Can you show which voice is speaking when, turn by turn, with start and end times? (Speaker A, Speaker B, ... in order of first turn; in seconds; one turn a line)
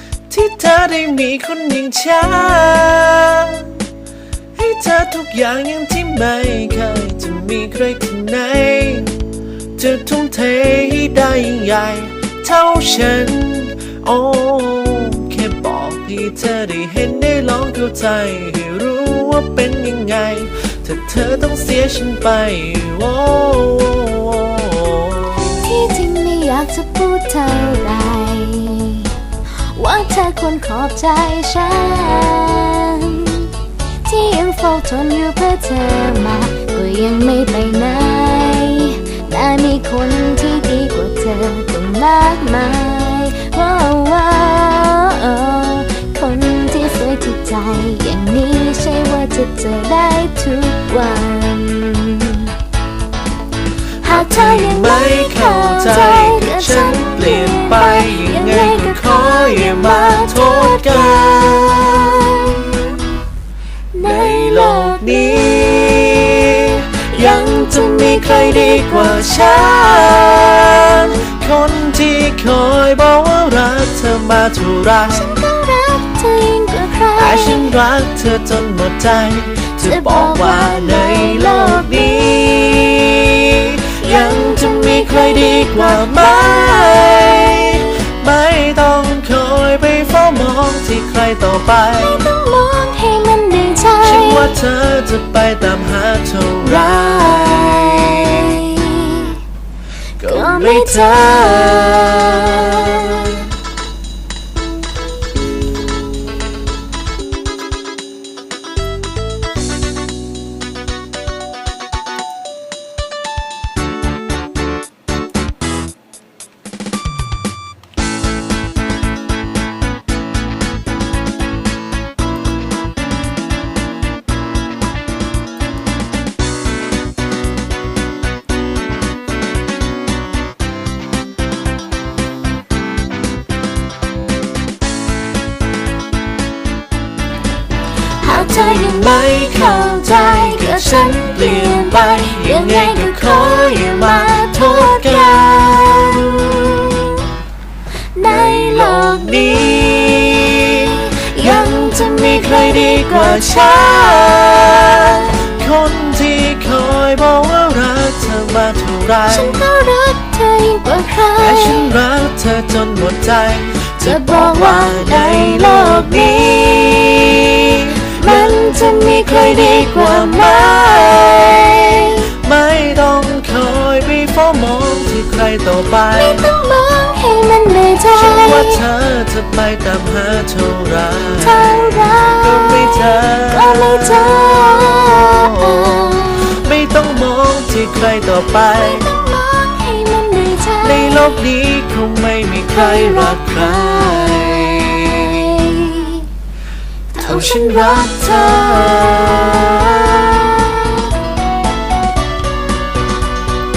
Speaker A: 0.3-3.9
Speaker A: 4.5-25.6
Speaker B: 25.4-52.6
Speaker B: 54.0-62.8
Speaker A: 54.1-62.8
Speaker B: 63.9-66.2
Speaker A: 64.0-75.3
Speaker B: 67.0-69.6
Speaker B: 75.1-77.7
Speaker A: 77.2-92.3
Speaker B: 79.8-82.6
Speaker B: 83.8-87.9
Speaker B: 92.0-94.5
Speaker A: 94.0-98.4
Speaker B: 96.9-99.4
Speaker B: 100.2-103.4
Speaker A: 100.2-103.5
Speaker B: 138.1-147.3
Speaker A: 138.8-147.1
Speaker B: 148.1-154.3
Speaker A: 148.4-159.6
Speaker B: 159.3-161.9
Speaker A: 161.4-176.5
Speaker B: 164.0-167.2
Speaker B: 167.8-172.2
Speaker B: 176.1-178.8
Speaker A: 178.1-189.1
Speaker B: 181.4-186.6
Speaker B: 188.8-191.4
Speaker A: 190.8-195.7
Speaker B: 192.7-196.3
Speaker B: 197.1-199.3
Speaker A: 197.2-200.6
Speaker B: 200.2-201.1